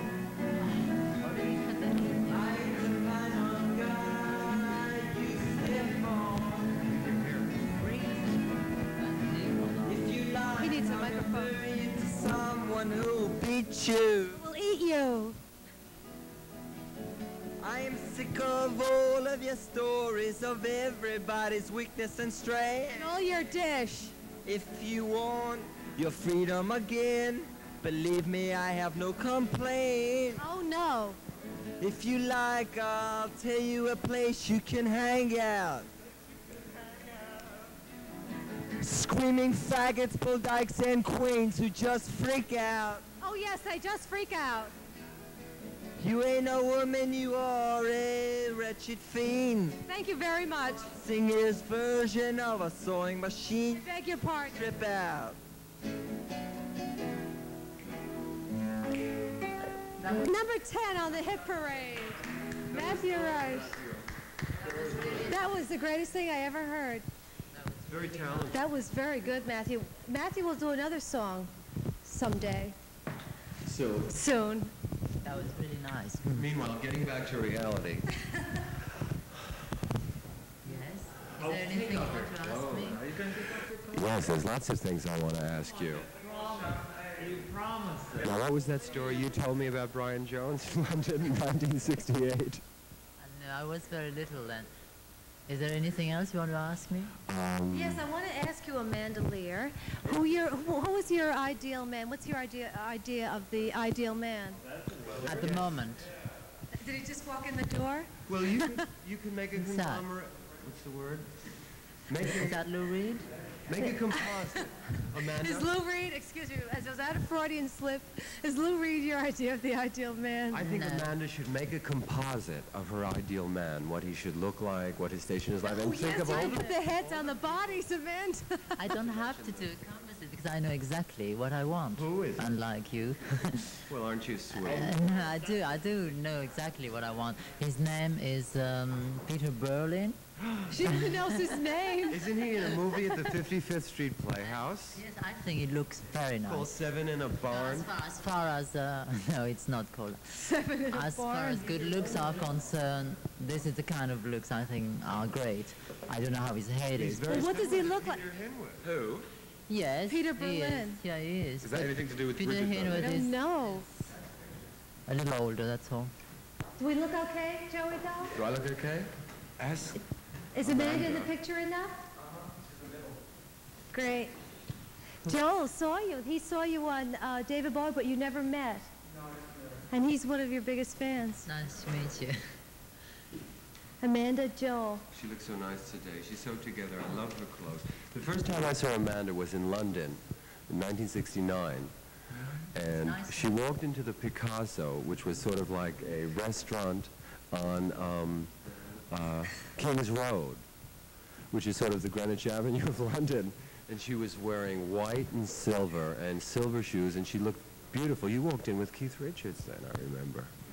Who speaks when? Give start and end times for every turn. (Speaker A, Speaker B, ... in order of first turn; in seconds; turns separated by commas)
Speaker A: 0.6-2.7, Speaker B: 2.3-6.8, Speaker C: 6.8-7.7, Speaker A: 7.7-10.2, Speaker B: 9.8-14.4, Speaker D: 10.6-11.6, Speaker D: 14.3-15.4, Speaker B: 17.6-23.1, Speaker D: 22.9-24.1, Speaker B: 24.4-30.4, Speaker D: 30.4-31.2, Speaker B: 31.8-35.9, Speaker B: 38.8-43.0, Speaker D: 43.2-44.7, Speaker B: 46.0-49.8, Speaker D: 49.9-50.9, Speaker B: 50.9-53.8, Speaker D: 53.7-54.6, Speaker B: 54.5-55.4, Speaker A: 60.0-60.3, Speaker D: 60.1-63.8, Speaker C: 62.7-64.0, Speaker A: 64.6-65.5, Speaker C: 64.6-65.3, Speaker D: 65.2-67.0, Speaker A: 67.5-68.9, Speaker C: 67.9-68.6, Speaker D: 68.5-71.5, Speaker D: 72.0-72.7, Speaker C: 73.7-74.1, Speaker D: 74.1-74.7, Speaker A: 75.2-76.6, Speaker C: 76.3-78.1, Speaker A: 80.6-83.0, Speaker C: 81.4-83.3, Speaker E: 83.0-84.1, Speaker C: 83.8-87.2, Speaker E: 85.7-88.4, Speaker C: 88.2-92.6, Speaker A: 93.2-94.7, Speaker A: 95.5-97.2, Speaker C: 97.3-98.0, Speaker D: 97.7-104.6, Speaker E: 104.6-105.6, Speaker C: 105.0-105.6, Speaker A: 105.2-106.1, Speaker D: 106.7-108.8, Speaker C: 108.3-111.3, Speaker A: 109.5-110.0, Speaker C: 112.1-112.6, Speaker A: 112.3-113.3, Speaker C: 113.7-115.7, Speaker D: 113.8-114.6, Speaker D: 115.2-120.7, Speaker C: 120.5-127.8, Speaker A: 120.6-121.1, Speaker D: 125.6-128.8, Speaker A: 126.3-126.6, Speaker A: 128.8-133.9, Speaker C: 128.9-129.8, Speaker C: 131.9-132.6, Speaker C: 133.9-135.0, Speaker A: 134.6-140.2, Speaker C: 140.4-140.7, Speaker D: 140.7-143.3, Speaker A: 140.8-141.5, Speaker C: 142.1-145.0, Speaker A: 144.4-146.8, Speaker C: 146.4-147.9, Speaker A: 147.5-150.4, Speaker D: 150.4-152.5, Speaker A: 150.9-157.6, Speaker C: 156.9-158.9, Speaker D: 157.3-158.2, Speaker F: 158.8-159.3, Speaker A: 159.7-163.4, Speaker D: 160.1-161.0, Speaker F: 161.6-163.2, Speaker D: 162.9-163.8, Speaker A: 165.1-166.1, Speaker D: 166.8-168.3, Speaker F: 168.3-169.1, Speaker C: 169.6-170.0, Speaker D: 170.5-172.0, Speaker F: 170.6-171.3, Speaker C: 172.3-172.8, Speaker D: 173.9-174.3, Speaker D: 175.2-178.9, Speaker D: 179.9-181.4, Speaker A: 181.4-182.5, Speaker D: 184.0-185.0, Speaker C: 185.1-191.9, Speaker C: 192.7-198.5, Speaker A: 192.8-193.5, Speaker C: 199.1-200.6, Speaker C: 201.5-210.5